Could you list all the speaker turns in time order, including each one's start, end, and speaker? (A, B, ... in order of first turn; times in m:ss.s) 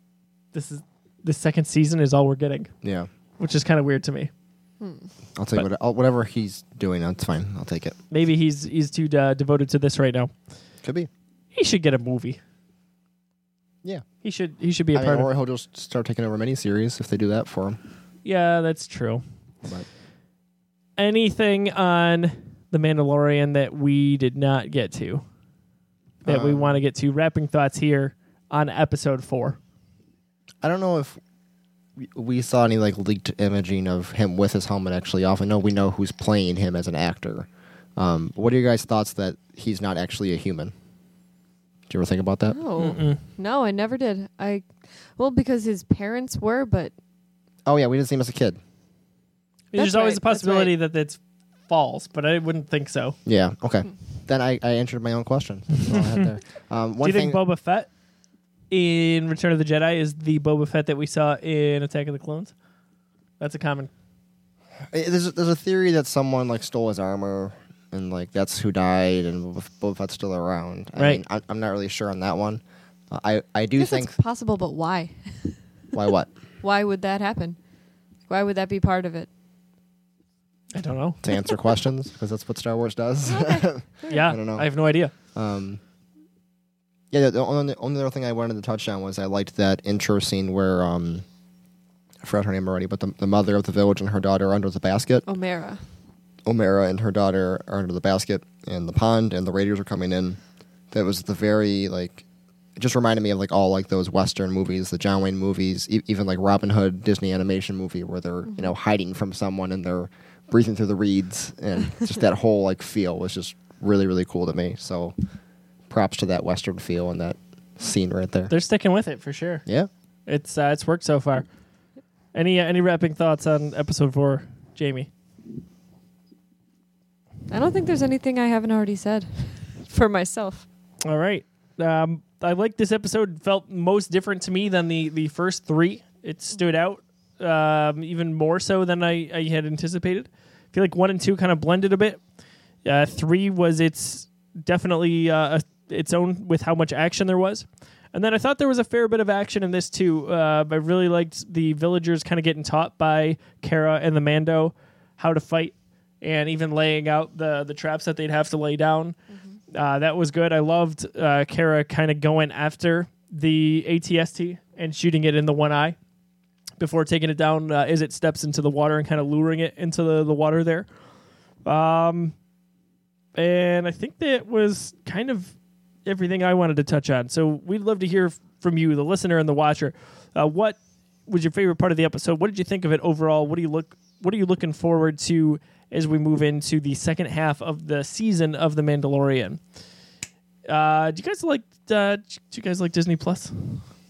0:00.5-0:02.7 A
0:02.8-0:03.1 B
0:03.4-0:04.3 A
0:04.8-0:05.1 C
0:05.4-0:08.0 B
0:08.1-0:10.3 A
0:10.8-0:11.1 B
0:11.5-0:12.4 A
0:14.2-0:15.3 A
0:14.9-0:17.8 B
0:18.2-0:19.2 A
0:21.0-0:25.2 A
0:26.2-0:26.8 B
0:26.2-0:29.6 A
0:30.6-0:31.2 B
0:32.0-0:40.7 B
0:41.9-0:42.6 B
0:42.5-0:46.9 C
0:42.8-0:43.2 A
0:47.6-0:48.6 B
0:49.7-0:50.7 C
0:49.7-0:53.2 A
0:53.2-0:57.4 B
0:55.9-0:56.3 A
0:57.0-0:57.9 A
0:58.7-1:02.5 A
1:03.4-1:03.9 A
1:04.9-1:14.1 B
1:11.0-1:11.2 A
1:13.8-1:15.6 C
1:15.9-1:16.3 B
1:16.6-1:17.6 C
1:18.3-1:19.3 C
1:20.7-1:21.2 A
1:21.2-1:24.7 B
1:23.2-1:24.3 C
1:24.1-1:25.1 A
1:25.3-1:25.8 B
1:27.1-1:31.2 B
1:32.2-1:35.2 B
1:35.2-1:35.8 C
1:36.4-1:40.4 B
1:40.9-1:42.2 B
1:42.8-1:55.1 B
1:55.9-1:58.5 B
1:58.5-1:59.6 A
2:00.3-2:01.4 A
2:02.3-2:05.1 A
2:07.5-2:10.6 C
2:11.0-2:22.2 A
2:22.8-2:39.2 A
2:39.7-2:46.0 A
2:46.8-2:50.9 A
2:51.6-2:52.3 A
2:53.4-2:55.5 A
2:56.0-3:09.6 A
3:10.6-3:13.8 A